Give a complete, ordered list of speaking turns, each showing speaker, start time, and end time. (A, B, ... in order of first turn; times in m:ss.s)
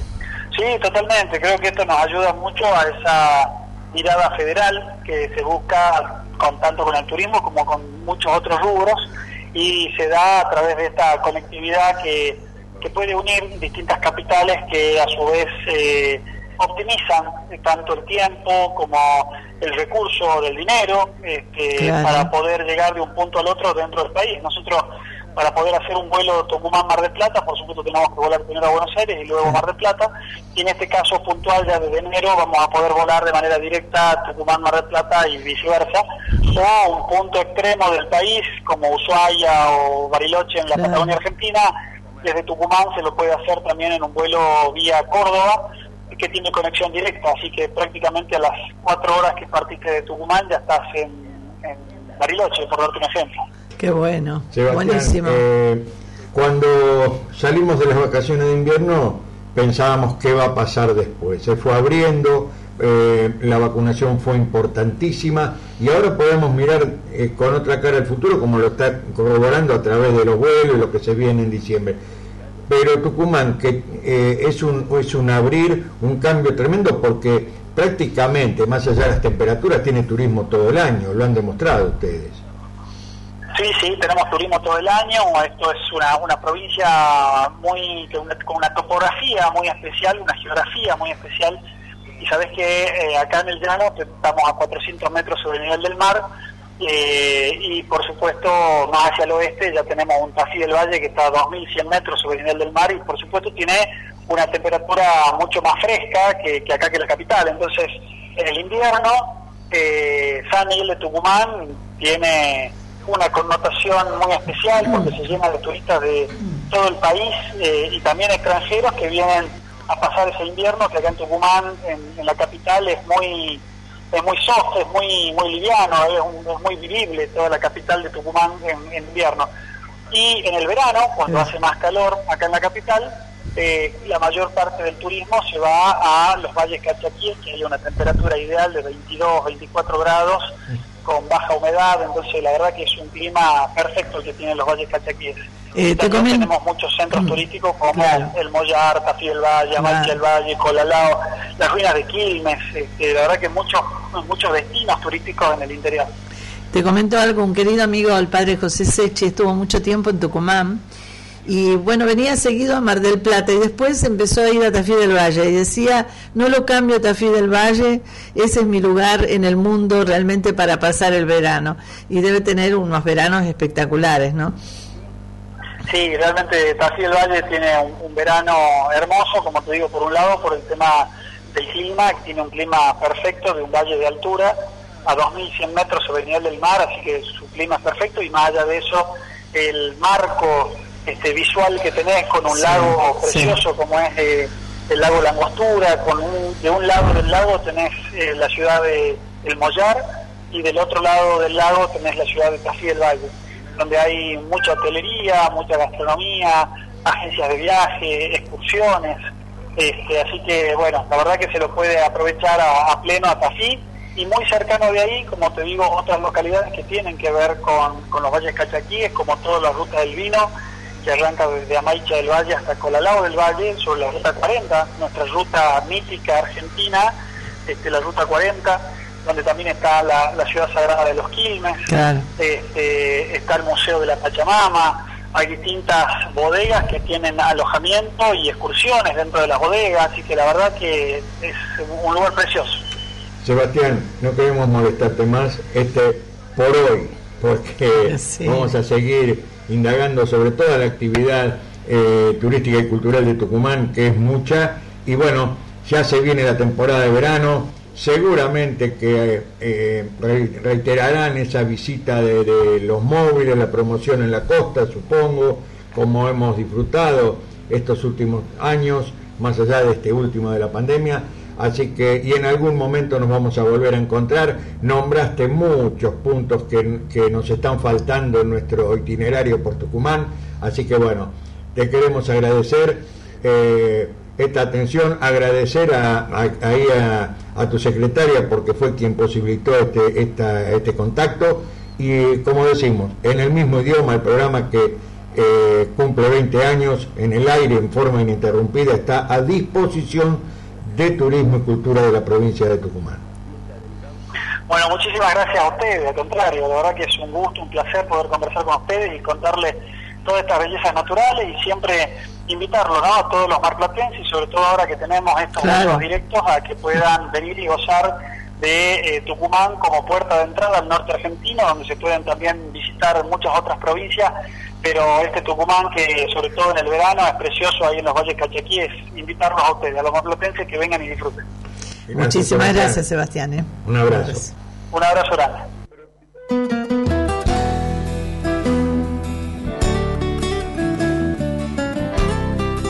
0:00.5-0:53.4 A
0:21.8-0:22.3 B
0:40.7-0:41.2 B
0:53.8-0:55.4 B
0:54.5-1:12.0 C
1:12.7-1:22.4 C
1:23.5-1:31.6 A
1:32.2-1:36.2 A
1:36.8-2:09.5 A
2:10.1-2:36.1 A
2:25.7-2:26.5 B
2:27.1-2:27.4 B
2:27.9-2:28.3 B
2:29.8-2:30.2 B
2:36.7-2:40.8 B
2:41.4-2:54.6 B
2:55.8-3:04.5 A
3:05.0-3:29.2 A
3:12.5-3:13.6 B
3:29.8-3:40.5 A
3:41.0-3:47.1 A
3:47.6-3:51.8 A
3:51.9-3:52.3 B
3:52.4-4:02.8 A
4:03.4-5:03.2 C
4:08.0-4:08.7 B
5:04.7-5:31.4 A
5:15.6-5:16.0 B
5:32.1-5:33.0 C
5:32.1-5:34.5 B
5:33.8-5:34.5 C
5:34.9-5:35.6 A